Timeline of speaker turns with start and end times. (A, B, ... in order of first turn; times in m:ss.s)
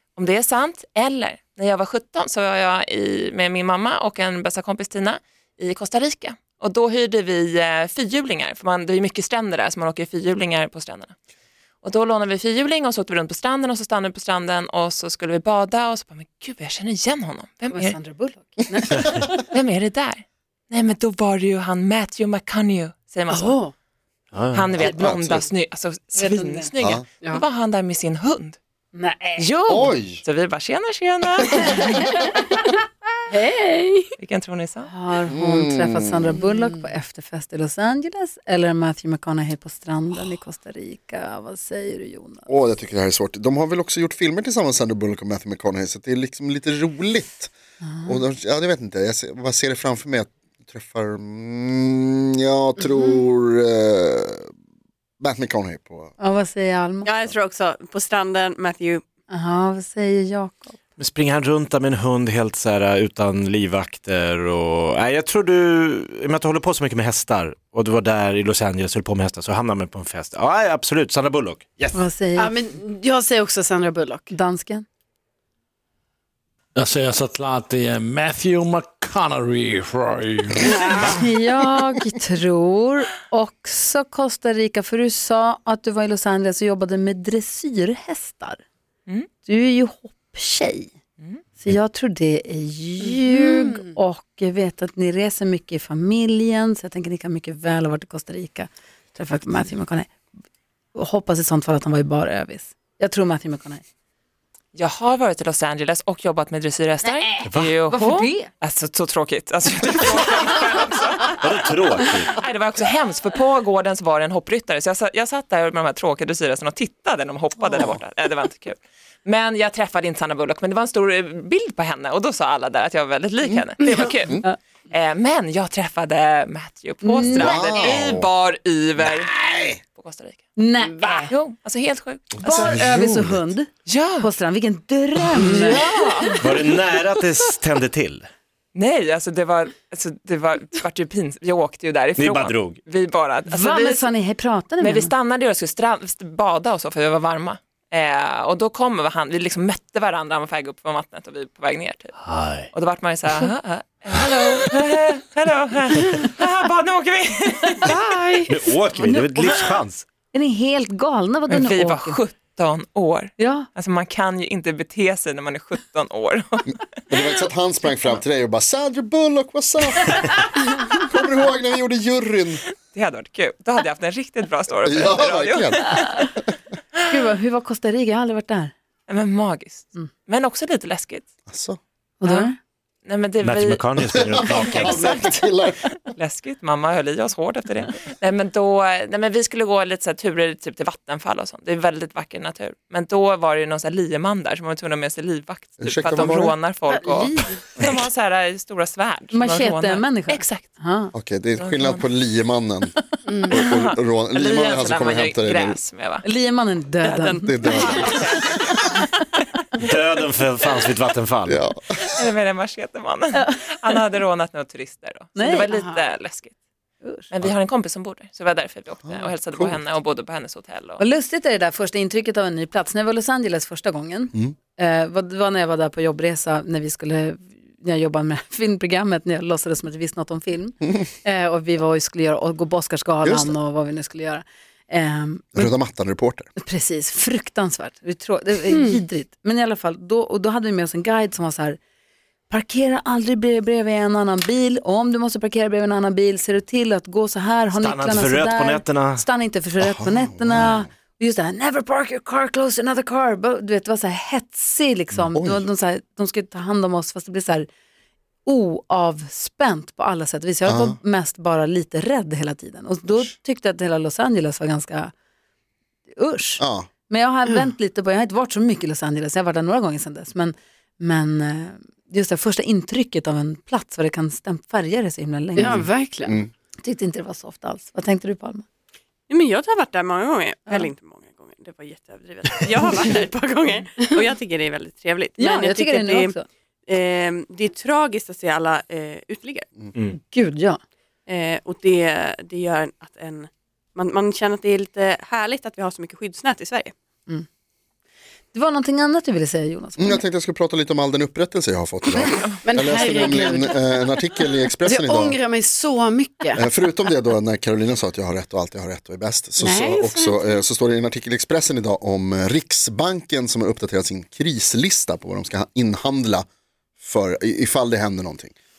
0:00.2-0:11.1 A
0:11.8-0:18.0 A
0:17.7-0:19.3 B
0:19.5-0:23.6 A
0:23.3-0:23.7 C
0:24.5-0:28.6 A
0:24.8-0:25.5 D
0:26.2-0:26.7 B
0:26.8-0:27.0 D
0:28.9-0:29.4 B
0:29.4-0:32.0 A
0:29.7-0:30.2 D
0:31.8-0:32.3 B
0:33.3-0:34.1 C
0:34.2-0:34.9 A
0:34.9-0:42.5 B
0:35.3-0:36.3 D
0:36.4-0:36.8 C
0:42.5-0:47.5 D
0:47.8-0:48.2 B
0:48.0-0:54.5 D
0:55.2-0:56.1 D
0:56.2-0:57.1 B
0:57.0-0:59.0 E
0:59.3-1:00.8 B
1:01.0-1:11.9 F
1:11.9-1:12.5 B
1:12.4-1:14.3 C
1:14.3-1:14.8 B
1:16.7-1:21.0 G
1:20.7-1:21.1 C
1:21.0-1:28.6 B
1:29.4-1:30.9 B
1:31.6-1:40.1 B
1:33.3-1:33.8 C
1:40.9-1:43.8 B
1:44.7-2:09.4 A
1:47.3-1:48.5 B
1:47.4-1:47.7 F
1:51.4-1:52.3 F
2:04.2-2:04.4 D
2:07.0-2:08.0 B
2:07.2-2:08.3 D
2:09.1-2:09.8 D
2:09.9-2:10.5 A
2:10.6-2:11.3 B
2:10.9-2:11.3 C
2:11.3-2:12.8 A
2:12.4-2:13.4 D
2:12.4-2:16.6 B
2:13.9-2:14.3 A
2:15.4-2:15.8 C
2:15.4-2:16.4 A
2:16.4-2:18.3 F
2:18.7-2:24.1 A
2:22.2-2:22.8 F
2:23.5-2:25.1 B
2:24.8-2:32.2 A
2:32.3-2:32.7 F
2:32.7-2:37.9 A
2:37.9-2:38.4 C
2:38.5-2:40.0 F
2:39.0-2:39.6 B
2:39.4-2:39.8 A
2:40.3-2:42.2 B
2:41.5-2:46.8 A
2:43.4-2:43.7 B
2:46.7-2:52.6 D
2:52.9-2:56.2 A
2:54.8-2:56.2 D
2:57.1-2:58.7 B
2:59.1-3:01.2 A
3:01.5-3:01.8 D
3:02.2-3:02.6 B
3:02.2-3:02.5 A
3:03.0-3:05.5 A
3:03.4-3:05.0 F
3:04.0-3:05.8 D
3:06.1-3:20.7 A
3:15.8-3:16.6 D
3:16.9-3:17.6 C
3:19.3-3:21.1 B
3:21.1-3:22.9 D
3:21.6-3:22.0 A
3:23.3-3:23.6 C
3:23.5-3:25.8 D
3:23.5-3:26.2 A
3:26.2-3:27.9 B
3:27.0-3:28.1 E
3:27.4-3:28.9 D
3:27.7-3:28.6 A
3:29.8-3:31.5 F
3:31.4-3:32.0 D
3:32.0-3:36.5 A
3:35.4-3:35.7 B
3:35.7-3:36.0 C
3:37.3-3:41.0 A
3:39.0-3:39.8 D
3:41.0-3:55.7 B
3:53.2-3:53.5 D
3:55.5-3:56.5 D
3:56.6-4:01.8 B
3:58.7-3:59.0 C
4:02.5-4:17.7 B
4:07.8-4:09.2 F
4:09.8-4:10.9 D
4:15.2-4:15.6 D
4:18.4-4:25.1 B
4:20.6-4:21.0 D
4:26.2-4:35.8 B
4:26.6-4:26.9 D
4:35.6-4:36.4 C
4:35.6-4:36.5 D
4:36.8-4:38.6 B
4:39.3-4:46.4 E
4:45.4-4:46.4 B
4:46.9-4:49.7 E
4:50.1-4:50.8 B
4:51.3-4:56.9 E
4:58.5-5:00.2 B
5:00.0-5:05.4 D
5:02.6-5:04.1 C
5:04.8-5:06.6 C
5:06.6-5:16.4 D
5:09.6-5:10.6 C
5:17.0-5:18.5 D